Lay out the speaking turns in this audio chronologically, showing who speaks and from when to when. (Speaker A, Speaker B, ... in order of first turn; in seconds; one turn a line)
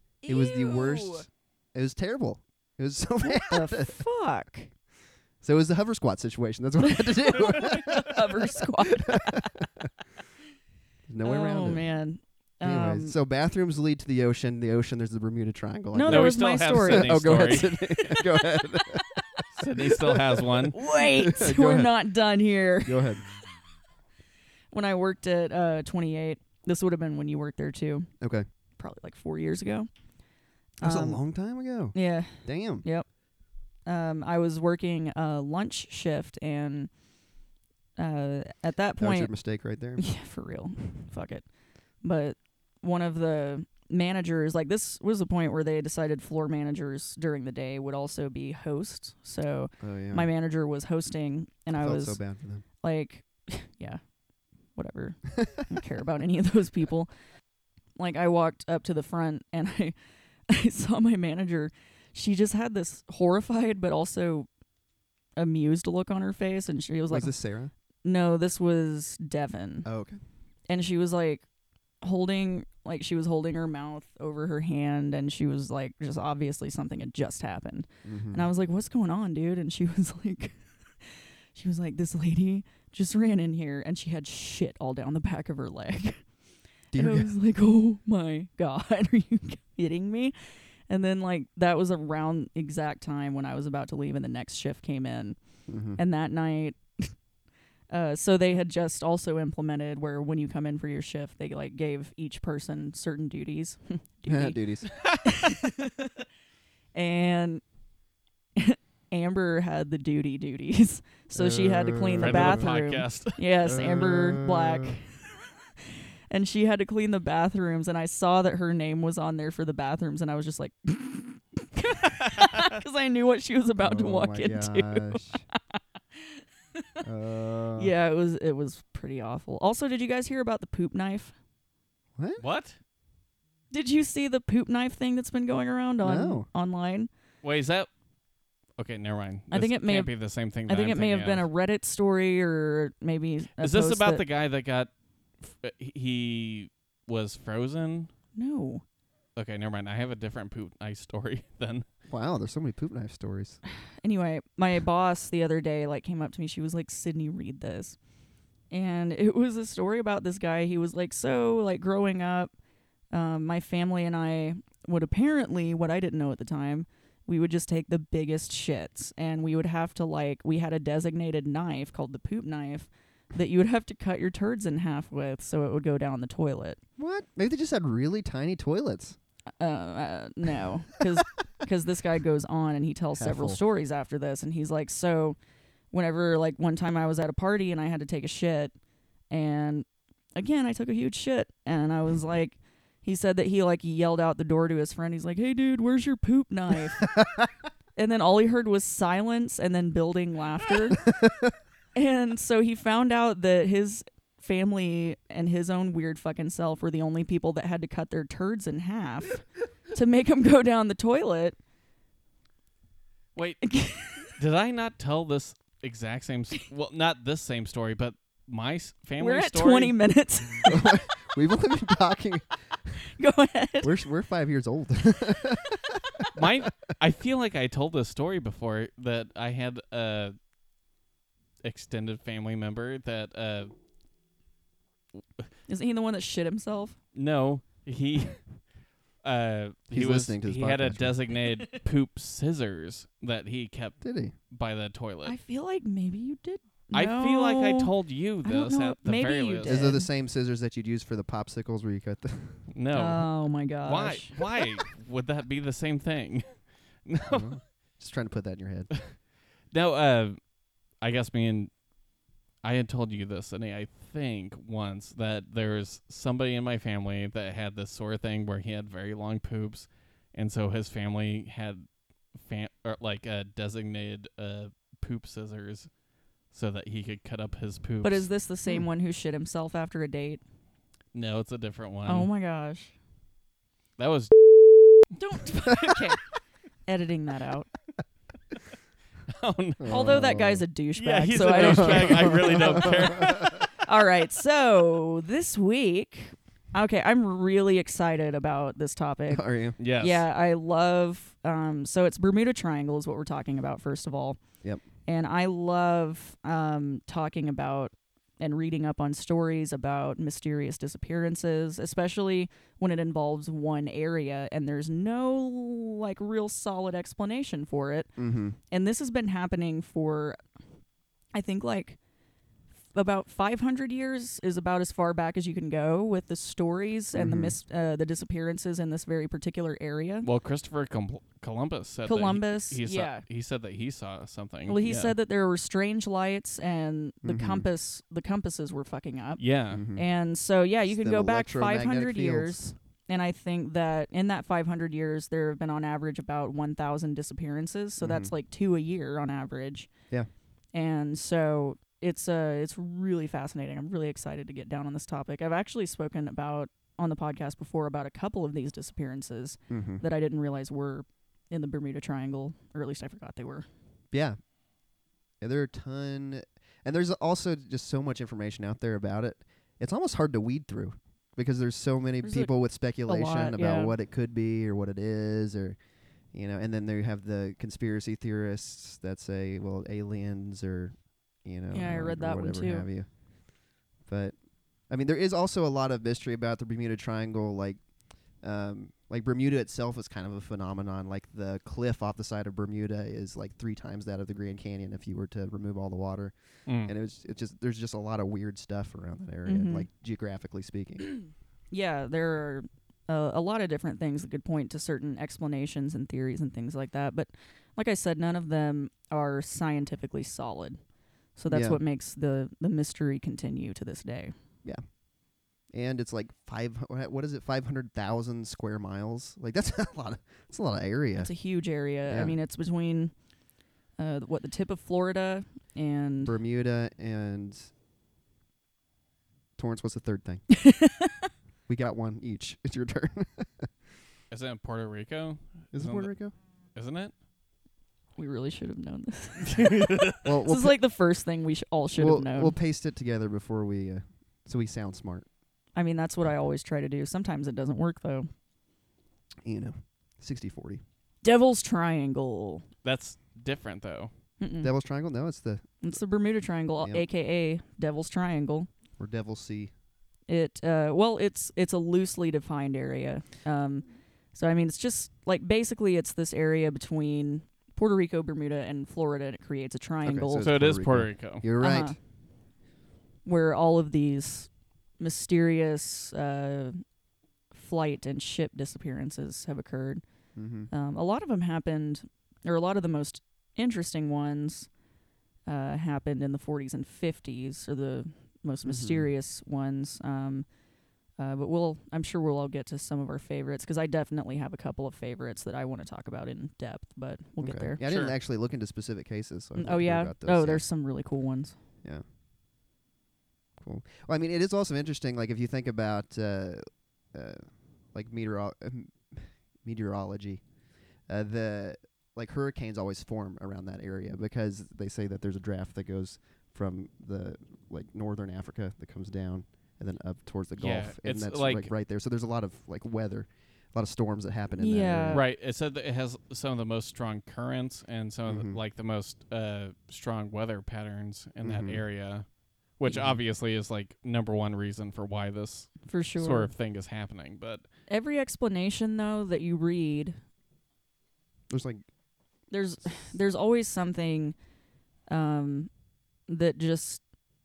Speaker A: 0.2-1.3
Speaker B: 0.3-4.0
Speaker A: 3.2-4.7
Speaker B: 5.4-9.9
Speaker A: 6.9-9.4
Speaker B: 11.1-11.8
Speaker A: 11.2-13.1
Speaker B: 12.6-21.9
Speaker A: 15.9-18.9
Speaker C: 16.1-17.7
Speaker C: 19.6-20.8
Speaker A: 20.7-23.1
Speaker B: 22.8-23.2
Speaker A: 24.7-28.1
Speaker A: 28.8-29.9
Speaker A: 30.8-31.2
Speaker B: 30.8-32.9
Speaker A: 31.9-33.1
Speaker A: 33.9-36.9
Speaker A: 38.0-39.3
Speaker B: 39.0-40.0
Speaker A: 40.0-41.5
Speaker A: 42.0-52.2
Speaker B: 49.8-50.3
Speaker B: 51.7-52.6
Speaker A: 52.8-54.0
Speaker A: 54.7-57.1
Speaker A: 58.0-59.9
Speaker A: 60.5-64.5
Speaker A: 65.4-67.3
Speaker B: 67.1-67.7
Speaker A: 68.0-69.9
Speaker B: 69.8-70.2
Speaker A: 70.7-71.4
Speaker A: 72.0-86.2
Speaker B: 78.0-78.4
Speaker B: 86.9-87.3
Speaker A: 86.9-95.4
Speaker B: 95.7-96.0
Speaker A: 95.9-97.1
Speaker A: 97.9-104.6
Speaker B: 104.3-104.9
Speaker A: 105.2-106.2
Speaker A: 106.9-107.6
Speaker A: 108.5-115.4
Speaker B: 111.3-112.7
Speaker C: 112.2-113.4
Speaker B: 113.6-115.0
Speaker A: 116.3-126.4
Speaker B: 123.8-125.4
Speaker B: 127.0-127.9
Speaker A: 127.8-131.3
Speaker B: 132.2-132.4
Speaker C: 132.4-132.8
Speaker A: 133.7-137.1
Speaker B: 136.0-136.5
Speaker C: 137.4-137.9
Speaker C: 138.8-141.5
Speaker A: 139.5-140.1
Speaker A: 140.7-144.2
Speaker C: 143.6-148.1
Speaker A: 148.3-148.8
Speaker C: 149.3-151.8
Speaker B: 152.1-153.6
Speaker A: 154.0-158.0
Speaker A: 158.7-162.5
Speaker A: 163.1-176.8
Speaker B: 177.0-179.2
Speaker A: 179.6-185.4
Speaker B: 183.2-183.6
Speaker A: 185.9-188.7
Speaker A: 189.3-197.1
Speaker B: 197.2-197.4
Speaker A: 197.9-201.0
Speaker B: 201.1-201.5
Speaker A: 201.9-211.6
Speaker C: 213.3-219.9
Speaker A: 213.6-214.3
Speaker A: 219.2-220.9
Speaker B: 220.6-222.9
Speaker A: 223.2-223.9
Speaker B: 223.8-226.2
Speaker C: 226.3-230.3
Speaker C: 231.6-233.7
Speaker A: 235.7-237.0
Speaker C: 237.1-238.5
Speaker C: 239.2-245.3
Speaker B: 239.9-241.1
Speaker B: 244.0-244.3
Speaker A: 245.2-247.9
Speaker C: 246.9-249.9
Speaker A: 248.4-250.1
Speaker B: 249.7-252.6
Speaker C: 252.7-253.3
Speaker A: 252.9-254.4
Speaker C: 253.8-257.6
Speaker B: 257.3-258.9
Speaker C: 259.7-260.4
Speaker C: 261.0-261.7
Speaker C: 262.6-275.9
Speaker C: 276.5-278.2
Speaker A: 278.0-280.4
Speaker C: 281.1-282.3
Speaker A: 282.1-282.9
Speaker C: 284.0-284.3
Speaker A: 285.1-286.2
Speaker A: 286.9-287.7
Speaker C: 289.3-290.1
Speaker B: 289.8-290.6
Speaker A: 289.8-299.4
Speaker C: 290.9-293.7
Speaker B: 291.5-293.5
Speaker B: 299.3-299.8
Speaker C: 299.8-300.2
Speaker A: 300.0-304.4
Speaker A: 305.1-318.1
Speaker B: 318.2-318.6
Speaker A: 318.7-320.4
Speaker A: 321.3-322.0
Speaker A: 322.9-330.3
Speaker B: 327.1-327.5
Speaker C: 330.2-335.1
Speaker A: 332.1-333.2
Speaker A: 334.7-349.9
Speaker B: 337.2-337.7
Speaker C: 339.4-339.8
Speaker B: 339.7-340.0
Speaker B: 340.9-342.6
Speaker B: 348.0-348.3
Speaker A: 350.7-363.6
Speaker B: 359.7-360.0
Speaker B: 364.1-364.4
Speaker B: 365.4-375.8
Speaker A: 372.2-372.5
Speaker A: 373.1-373.9
Speaker B: 376.3-383.2
Speaker A: 381.7-382.9
Speaker B: 384.0-384.4
Speaker B: 384.9-387.8
Speaker B: 388.4-401.1
Speaker C: 396.7-396.9
Speaker A: 399.4-399.9
Speaker A: 401.7-410.8
Speaker A: 411.4-414.3
Speaker B: 411.5-411.8
Speaker B: 415.7-421.3
Speaker A: 421.1-423.1
Speaker B: 422.1-422.4
Speaker A: 424.0-426.4
Speaker B: 426.2-427.7
Speaker B: 429.6-430.4
Speaker A: 430.6-431.1
Speaker B: 431.7-433.7
Speaker C: 434.3-436.1
Speaker B: 435.7-436.3
Speaker C: 436.7-437.1
Speaker A: 438.2-442.5
Speaker C: 439.5-440.2
Speaker B: 440.2-440.8
Speaker B: 442.0-445.2
Speaker A: 445.8-448.3
Speaker B: 449.4-450.8
Speaker A: 451.2-452.6
Speaker C: 452.8-454.1
Speaker A: 454.4-454.7
Speaker B: 454.6-455.7
Speaker A: 455.8-458.7
Speaker B: 459.0-459.7
Speaker A: 460.3-470.5
Speaker B: 470.0-471.9
Speaker C: 470.4-471.4
Speaker A: 471.6-472.0
Speaker A: 473.2-476.8
Speaker A: 477.5-480.0
Speaker B: 480.3-480.7
Speaker A: 480.7-484.7
Speaker A: 485.4-490.5
Speaker B: 488.6-489.1
Speaker A: 491.1-497.8
Speaker B: 497.4-500.6
Speaker C: 497.8-498.1
Speaker A: 499.5-501.5
Speaker B: 503.6-510.4
Speaker B: 511.1-525.2
Speaker C: 520.6-521.7
Speaker A: 524.6-525.2
Speaker C: 525.1-532.2
Speaker B: 528.3-528.6
Speaker B: 531.4-531.8
Speaker C: 532.8-537.6
Speaker B: 532.9-533.2
Speaker A: 535.8-536.5
Speaker A: 537.9-540.2
Speaker B: 541.5-541.8
Speaker A: 542.5-544.3
Speaker A: 545.1-545.7
Speaker A: 546.3-547.0